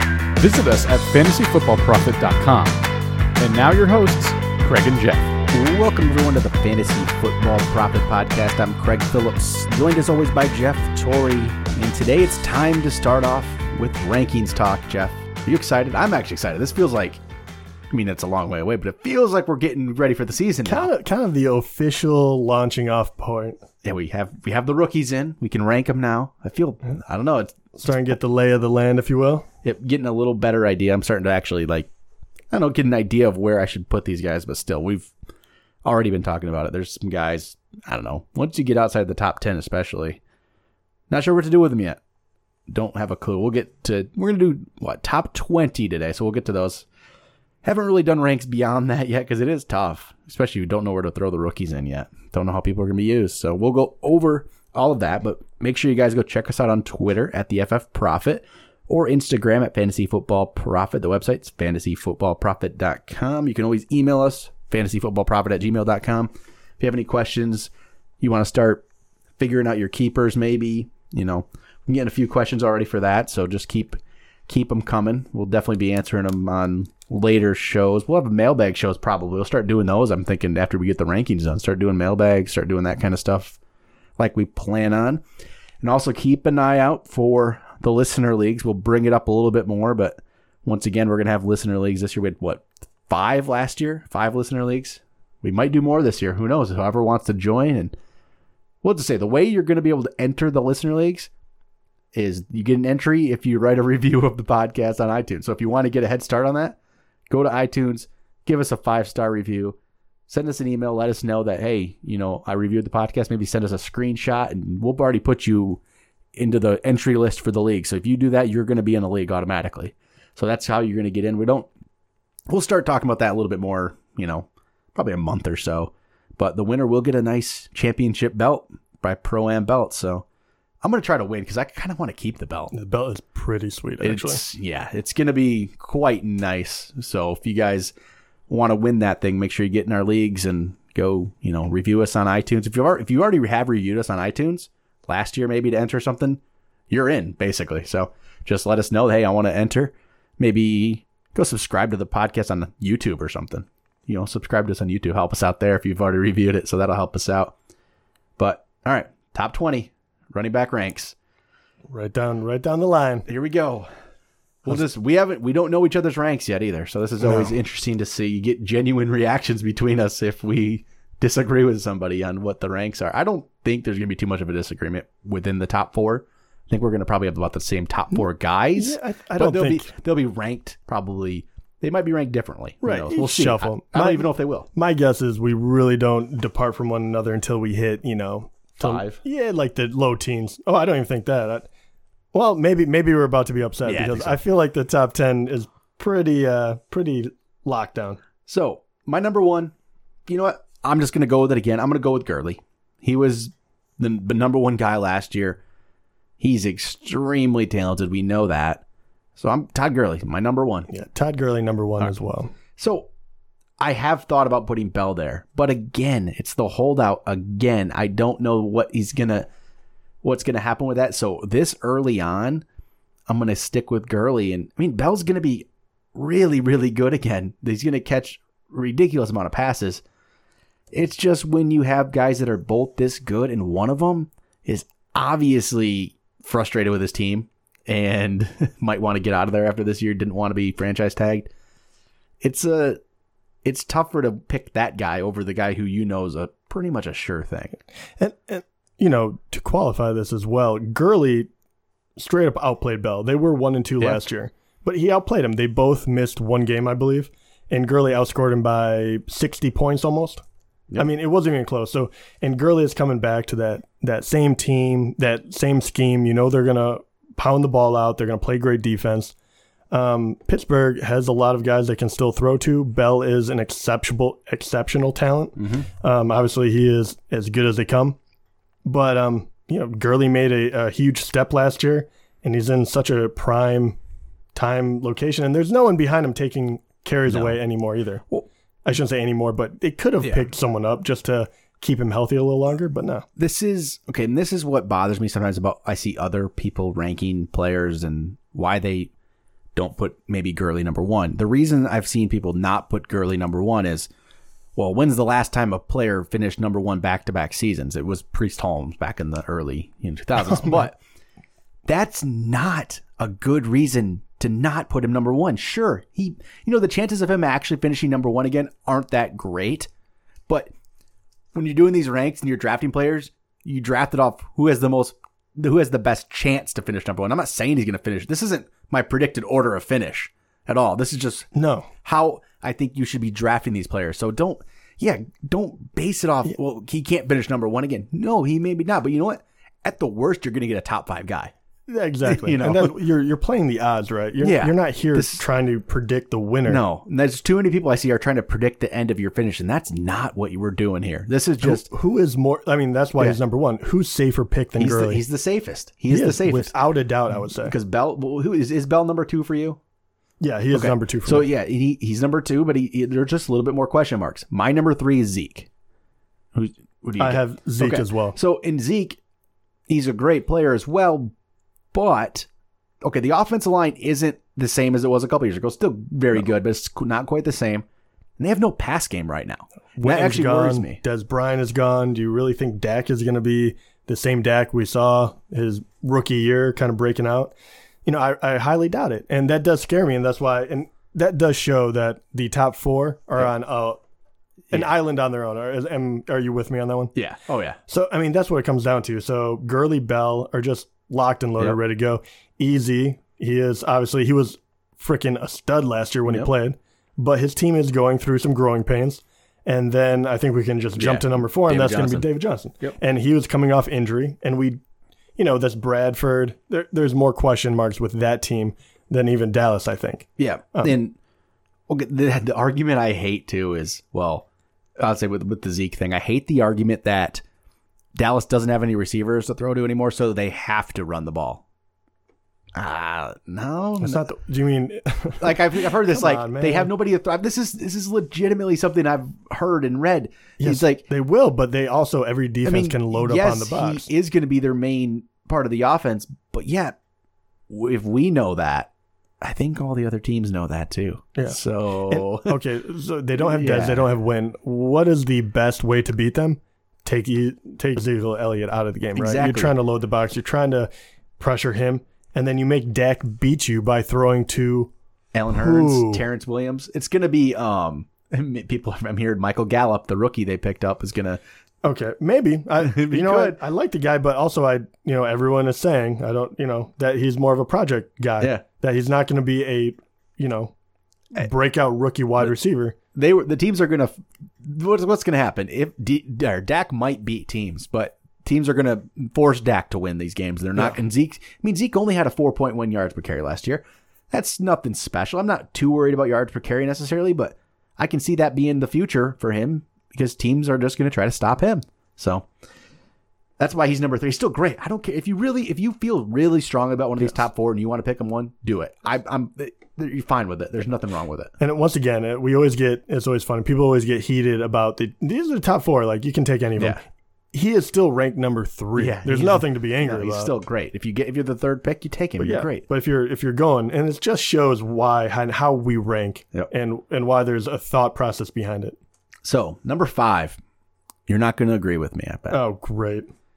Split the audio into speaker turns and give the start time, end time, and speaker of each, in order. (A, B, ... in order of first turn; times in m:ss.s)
0:00.4-0:02.8 A
0:03.4-0:05.4 A
0:05.5-0:17.2 B
0:17.9-0:20.9 B
0:20.6-0:23.6 C
0:23.8-0:27.6 B
0:27.7-0:29.4 C
0:29.6-0:31.9 B
0:32.5-0:35.1 B
0:35.8-0:40.2 B
0:41.1-0:42.0 B
0:42.7-0:46.8 B
0:47.6-1:08.8 B
1:09.4-1:23.6 B
1:24.2-1:25.2 B
1:25.8-1:37.9 B
1:38.8-1:41.3 B
1:42.1-1:46.8 B
1:47.3-1:49.8 B
1:50.3-1:55.8 B
1:56.3-2:01.7 B
2:02.5-2:10.2 B
2:10.8-2:12.7 B
2:12.7-2:14.4 C
2:14.0-2:17.9 B
2:18.5-2:37.5 B
2:38.4-2:41.1 B
2:41.9-2:43.3 C
2:43.3-2:43.9 B
2:44.6-3:04.7 B
2:47.2-2:47.5 C
2:58.8-2:59.9 C
3:02.8-3:11.7 C
3:08.8-3:09.2 B
3:12.3-3:18.2 C
3:13.8-3:14.4 B
3:18.5-3:19.7 B
3:20.3-3:25.6 B
3:26.4-3:28.8 B
3:29.4-3:30.9 B
3:30.9-3:32.5 C
3:32.8-3:33.1 B
3:33.8-3:39.5 B
3:40.2-3:42.6 B
3:43.3-3:50.0 B
3:50.9-4:01.5 B
4:02.4-4:03.0 B
4:03.6-4:07.8 B
4:08.2-4:11.5 C
4:12.2-4:20.4 C
4:21.0-4:29.3 C
4:29.9-4:38.2 C
4:35.6-4:35.8 B
4:38.8-4:44.0 C
4:44.5-4:48.3 C
4:47.3-4:47.6 B
4:48.8-4:53.2 C
4:50.2-4:50.5 B
4:53.4-4:59.1 B
4:59.7-5:04.1 B
5:04.8-5:11.0 B
5:11.8-5:19.9 B
5:21.5-5:31.5 B
5:31.5-5:31.9 C
5:32.0-5:41.5 B
5:41.9-5:46.8 C
5:42.2-5:43.0 B
5:44.4-5:45.4 B
5:46.7-5:51.8 B
5:51.6-5:55.2 C
5:54.8-5:56.7 B
5:56.1-5:57.7 C
5:57.4-5:59.8 B
6:00.4-6:01.5 C
6:00.7-6:05.7 B
6:06.5-6:09.2 B
6:07.2-6:08.4 C
6:09.9-6:11.3 B
6:11.9-6:12.5 B
6:13.0-6:17.8 B
6:18.4-6:21.0 B
6:20.0-6:27.5 C
6:28.0-6:34.0 C
6:34.7-6:37.1 C
6:37.1-6:37.8 B
6:37.9-6:54.8 C
6:51.0-6:52.3 B
6:55.4-7:01.0 C
7:00.4-7:01.2 B
7:01.9-7:04.4 B
7:05.0-7:07.4 B
7:08.1-7:11.6 B
7:12.7-7:14.2 B
7:14.0-7:16.9 C
7:15.4-7:21.0 B
7:20.6-7:24.1 C
7:22.6-7:27.0 B
7:27.7-7:28.9 B
7:29.4-7:32.6 B
7:31.4-7:44.9 C
7:33.4-7:34.0 B
7:39.2-7:39.7 B
7:45.3-7:51.4 B
7:45.5-7:46.2 C
7:51.8-8:00.7 C
7:52.8-7:53.6 B
8:01.3-8:03.0 C
8:03.1-8:22.5 B
8:23.6-8:31.5 B
8:31.6-8:40.5 C
8:39.0-8:42.8 B
8:42.4-8:49.0 C
8:49.4-8:50.6 B
8:51.3-8:52.6 B
8:52.5-8:53.3 C